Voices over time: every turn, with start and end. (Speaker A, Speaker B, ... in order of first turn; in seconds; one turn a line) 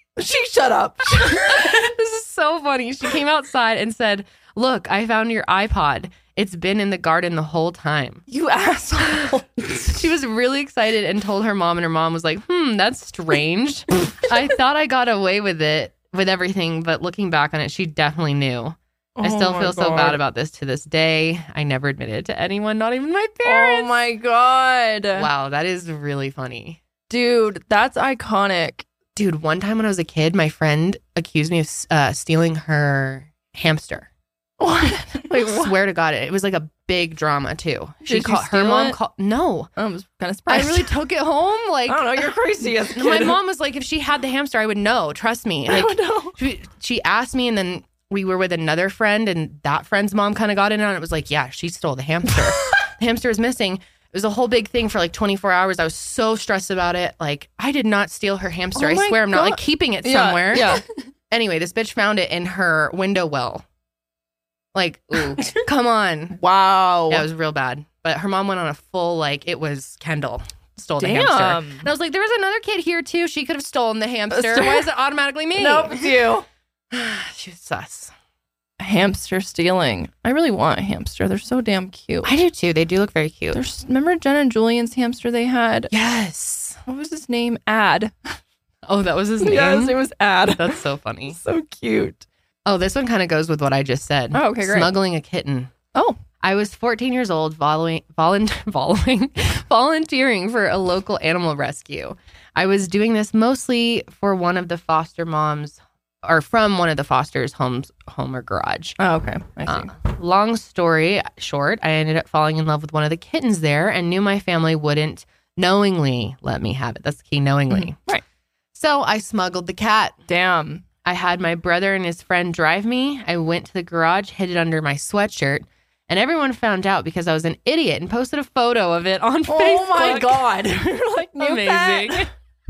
Speaker A: 0.2-1.7
Speaker B: 1.1-8.2
Speaker A: 8.3-10.0
Speaker B: 9.9-24.0
Speaker A: 19.2-20.2
Speaker A: 23.4-25.3
Speaker B: 25.1-26.8
Speaker A: 27.1-28.9
Speaker B: 29.1-34.1
Speaker A: 34.6-35.7
Speaker B: 35.2-39.7
Speaker A: 38.0-39.0
Speaker A: 39.8-40.9
Speaker B: 40.5-63.6
Speaker A: 41.9-43.4
Speaker A: 45.7-46.4
Speaker A: 58.7-60.8
Speaker B: 64.7-66.4
Speaker A: 66.3-67.3
Speaker B: 67.1-76.2
Speaker A: 71.0-71.9
Speaker A: 74.3-74.9
Speaker A: 75.5-76.5
Speaker B: 76.9-78.1
Speaker A: 78.8-82.4
Speaker B: 82.2-83.6
Speaker A: 83.5-85.9
Speaker B: 85.9-86.8
Speaker A: 86.8-88.3
Speaker B: 88.8-90.0
Speaker A: 89.4-92.2
Speaker B: 90.5-91.4
Speaker B: 92.6-95.7
Speaker A: 94.3-94.9
Speaker A: 95.9-96.2
Speaker B: 96.4-109.0
Speaker A: 109.0-109.9
Speaker B: 109.7-118.0
Speaker A: 117.7-118.2
Speaker B: 118.7-120.2
Speaker A: 120.3-120.8
Speaker B: 121.0-130.4
Speaker A: 129.5-132.3
Speaker B: 131.4-132.3